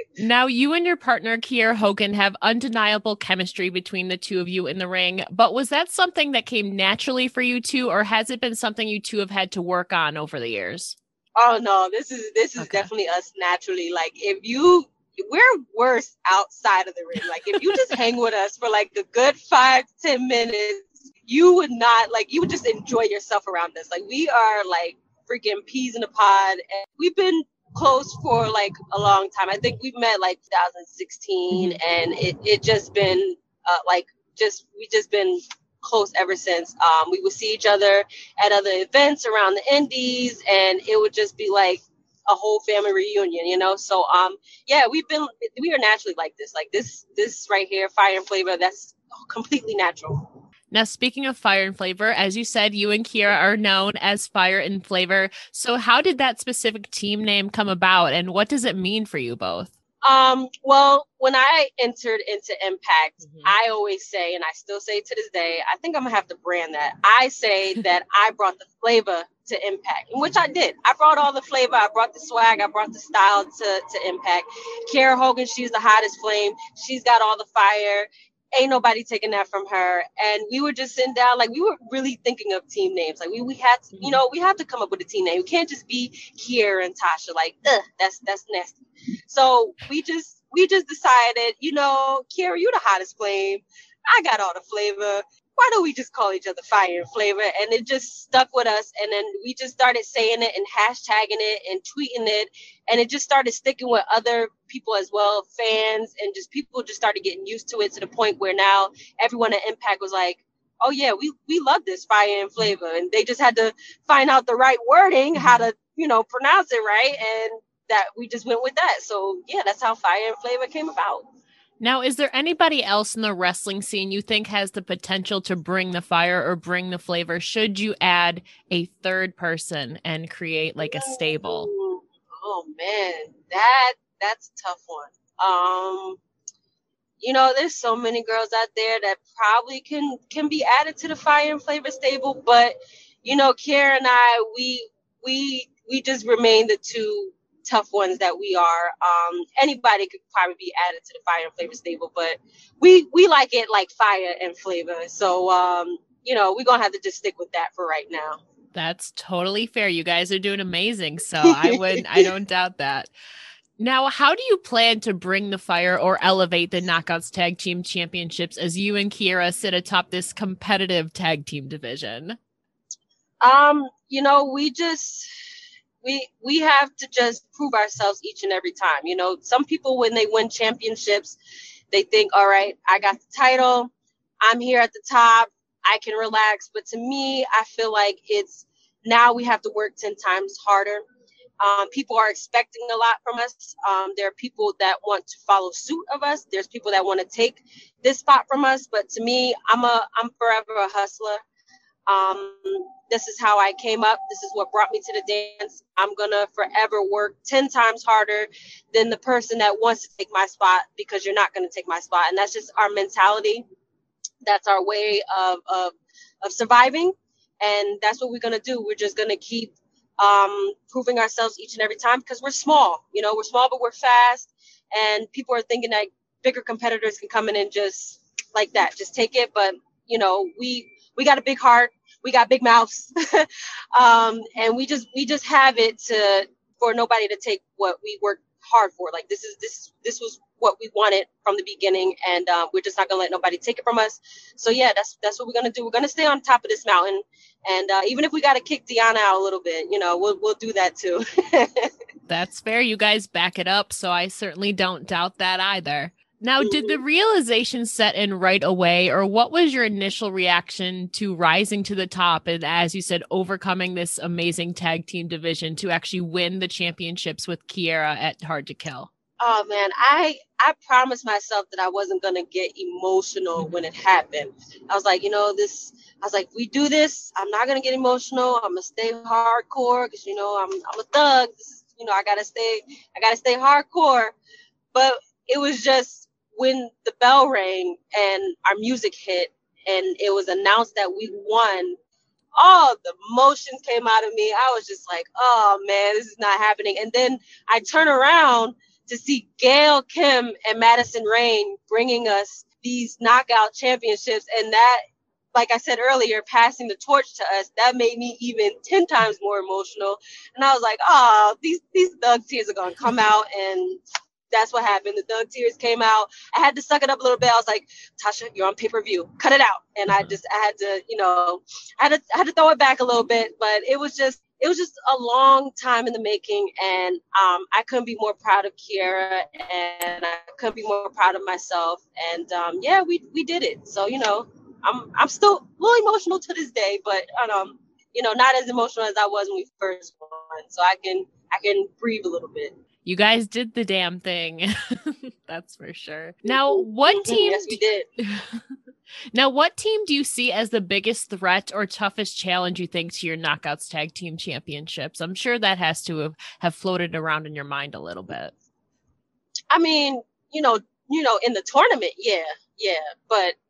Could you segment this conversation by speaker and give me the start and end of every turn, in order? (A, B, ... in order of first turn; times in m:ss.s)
0:00.2-0:11.0 A
0:11.4-0:50.3 B
0:12.6-0:12.9 A
0:31.5-0:31.8 A
0:50.7-0:59.7 A
1:00.0-2:01.2 B
1:03.2-1:03.5 A
1:24.0-1:24.2 A
1:55.4-1:55.7 A
2:01.8-2:11.7 A
2:10.8-2:16.2 B
2:17.2-2:38.4 B
2:38.8-2:43.1 A
2:41.4-2:42.0 B
2:43.8-2:52.4 A
2:53.4-2:55.3 B
2:56.0-3:01.4 B
3:01.9-3:03.9 B
3:04.4-3:11.0 B
3:11.6-3:21.4 B
3:22.1-3:33.7 B
3:34.4-4:11.9 B
4:12.3-4:29.1 A
4:16.6-4:17.0 B
4:29.4-4:44.4 B
4:44.9-4:52.0 B
4:52.6-5:05.0 B
5:05.5-5:42.7 B
5:20.1-5:20.3 A
5:43.0-5:48.6 A
5:46.5-5:48.1 B
5:49.3-5:58.5 A
5:59.7-6:03.6 B